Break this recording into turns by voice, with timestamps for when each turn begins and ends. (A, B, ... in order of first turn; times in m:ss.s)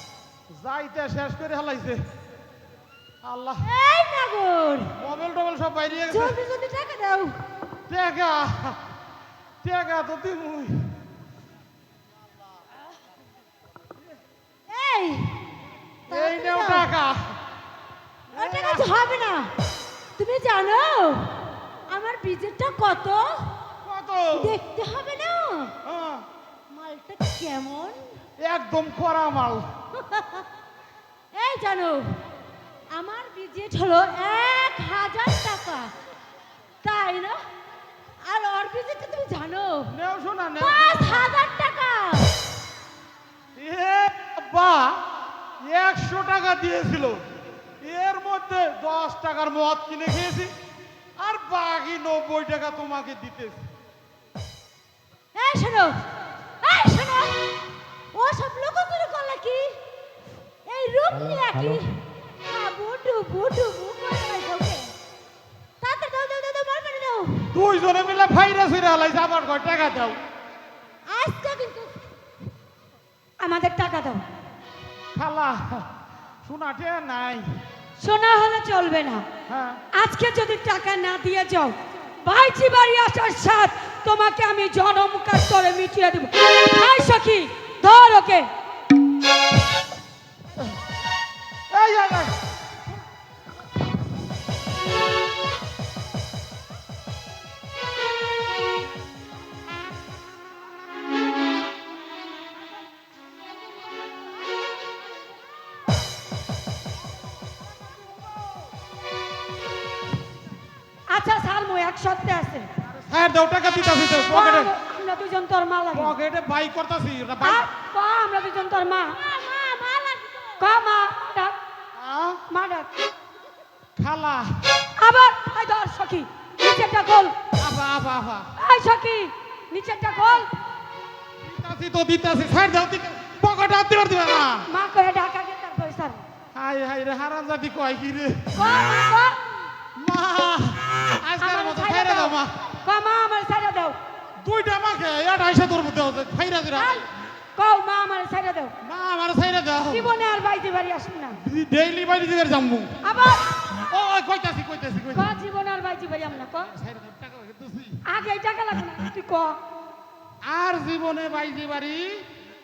0:00.5-0:02.0 A
0:03.2-0:03.7 A
0:03.6-0:04.9 B
0:05.0-0:06.4 A
0:06.1-0:07.4 B
0:07.9-0:08.8 A
0:09.6-0:10.9 A
0:14.7-0:15.5 B
0:16.1-0:16.9 B
0:16.1-0:17.4 A
0:18.3-0:18.9 A
0:18.3-0:19.5 B
0:20.2-0:23.6 B
0:23.8-0:24.6 A
0:24.3-0:25.8 B
0:25.8-0:26.2 A
0:26.7-0:28.2 B
0:28.4-0:29.7 A
0:30.0-0:30.4 B
0:31.3-0:32.2 B
0:32.9-0:35.9 B
0:36.8-0:37.5 B
0:38.2-0:39.9 B
0:39.9-0:41.3 A
0:40.6-0:42.4 B
0:43.6-0:45.0 A
0:45.6-0:47.3 A
0:47.8-0:50.5 A
0:51.2-0:53.7 A
0:55.4-0:56.0 B
0:56.6-0:57.4 B
0:58.1-0:59.8 B
1:00.7-1:04.9 B
1:05.8-1:07.5 B
1:07.5-1:10.2 A
1:11.1-1:12.0 B
1:13.4-1:14.2 C
1:15.2-1:15.9 A
1:16.4-1:17.6 A
1:18.0-1:19.3 C
1:19.5-1:19.8 A
1:19.9-1:28.5 C
1:31.7-1:32.4 A
1:51.1-1:52.7 C
1:53.0-1:54.7 A
1:54.3-1:56.2 C
1:55.9-1:57.6 A
1:57.4-1:59.2 C
1:59.2-2:00.8 B
2:00.6-2:01.6 C
2:02.0-2:02.4 A
2:02.5-2:02.9 C
2:04.0-2:04.6 A
2:05.0-2:07.4 C
2:07.6-2:08.5 A
2:08.6-2:10.5 C
2:11.4-2:14.7 A
2:14.7-2:16.2 C
2:16.5-2:18.6 A
2:18.6-2:19.4 C
2:20.0-2:22.7 A
2:21.4-2:24.0 C
2:24.4-2:27.0 A
2:26.8-2:27.0 C
2:27.6-2:28.8 C
2:28.8-2:30.1 A
2:29.9-2:31.4 C
2:31.4-2:33.0 A
2:33.0-2:33.6 C
2:33.9-2:35.3 A
2:35.1-2:36.7 C
2:36.6-2:38.0 A
2:38.0-2:39.6 C
2:40.4-2:42.2 A